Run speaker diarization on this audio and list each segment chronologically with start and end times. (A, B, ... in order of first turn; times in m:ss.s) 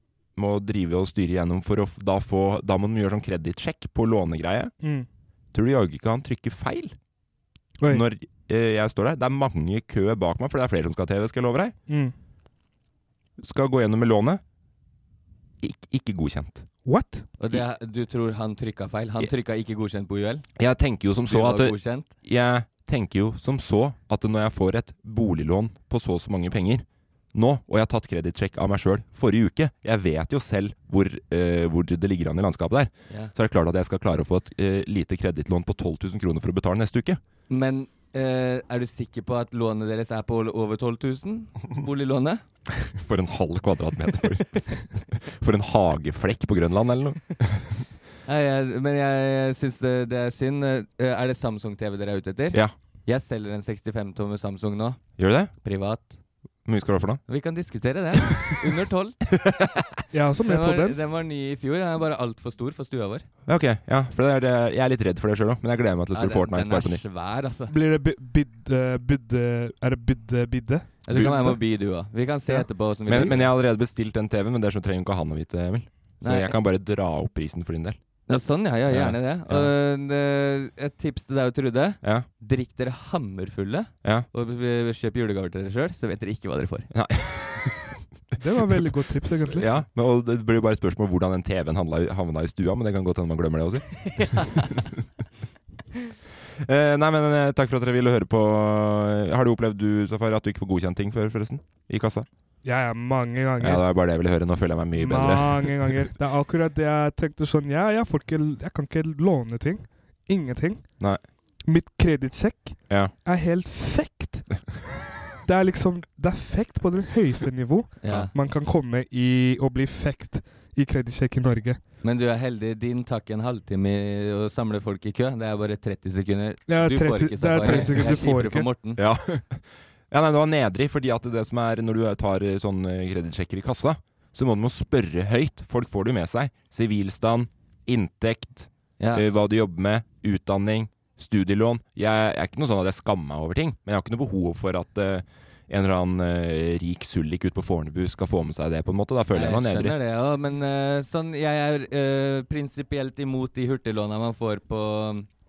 0:00.4-0:04.7 A
0:05.5-0:07.0 A
0:07.8-0:08.0 B
0:07.9-0:11.7 A
0:11.9-0:12.1 B
0:13.4-0:14.4 A
0:15.6-0:16.6 A
0:16.8-0:17.3 B
0:17.4-0:20.4 C
0:20.6-0:37.2 A
0:21.2-0:22.1 C
0:37.5-0:42.4 C
0:42.8-0:47.8 A
0:48.2-0:55.0 C
0:55.2-0:55.5 A
0:55.6-0:56.1 C
0:56.6-0:57.2 A
0:57.3-0:59.2 C
0:59.3-0:59.9 A
1:00.1-1:01.0 B
1:00.5-1:03.2 C
1:03.4-1:07.0 A
1:06.1-1:07.7 C
1:07.7-1:11.4 B
1:11.1-1:13.5 C
1:11.1-1:11.5 A
1:13.1-1:18.0 A
1:16.2-1:16.6 C
1:18.3-1:26.9 C
1:18.9-1:19.7 A
1:22.0-1:22.3 A
1:26.9-1:27.9 A
1:28.4-1:29.7 B
1:28.8-1:34.4 A
1:34.1-1:34.7 C
1:36.6-1:42.3 A
1:42.6-1:43.9 B
1:43.6-1:46.0 A
1:45.0-1:50.9 B
1:51.7-1:54.6 B
1:55.4-2:01.8 B
1:58.0-1:58.3 C
2:02.0-2:09.0 C
2:06.7-2:08.7 B
2:07.6-2:08.1 A
2:09.0-2:30.0 A
2:19.0-2:19.2 C
2:29.3-2:35.3 C